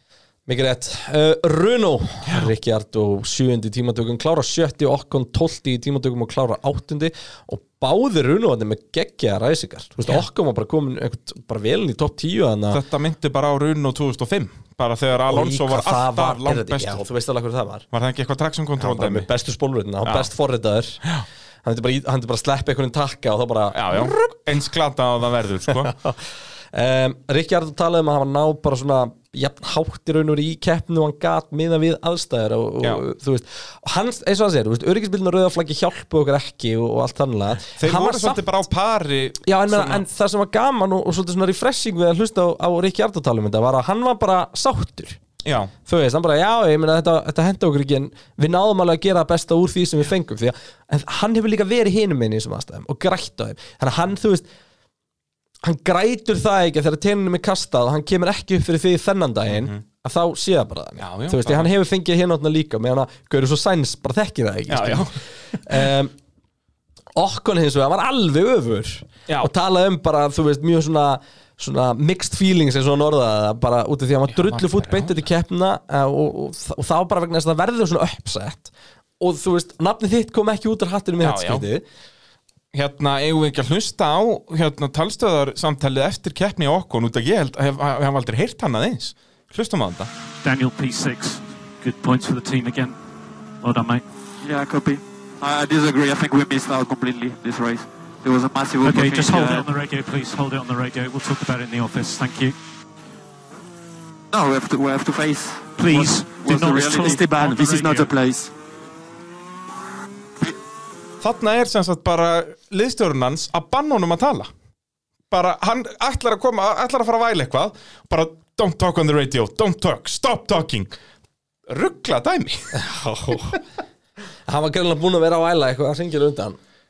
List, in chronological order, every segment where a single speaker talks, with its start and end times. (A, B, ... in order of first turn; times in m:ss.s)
0:00.5-0:12.8 A
0:12.7-0:17.0 B
0:15.3-0:17.8 A
0:17.9-0:19.3 B
0:18.8-0:21.0 A
0:20.0-0:20.3 B
0:21.6-0:24.2 A
0:23.7-0:25.9 B
0:25.7-0:26.2 A
0:26.7-0:38.4 A
0:37.7-0:40.0 B
0:39.4-0:45.2 A
0:45.4-0:45.7 B
0:45.8-0:54.5 A
0:55.6-1:06.1 A
0:59.5-0:59.8 B
1:01.0-1:01.7 B
1:04.7-1:05.8 B
1:07.2-1:21.8 A
1:14.3-1:15.2 B
1:21.2-1:21.6 B
1:22.7-1:30.1 B
1:30.4-1:33.0 C
1:33.6-1:34.0 C
1:34.4-1:39.7 D
1:38.8-1:42.6 C
1:44.3-1:48.5 D
1:45.8-1:48.1 C
1:51.2-1:54.5 B
1:55.3-2:00.9 B
2:01.7-2:02.8 B
2:02.7-2:03.6 A
2:04.5-2:06.6 A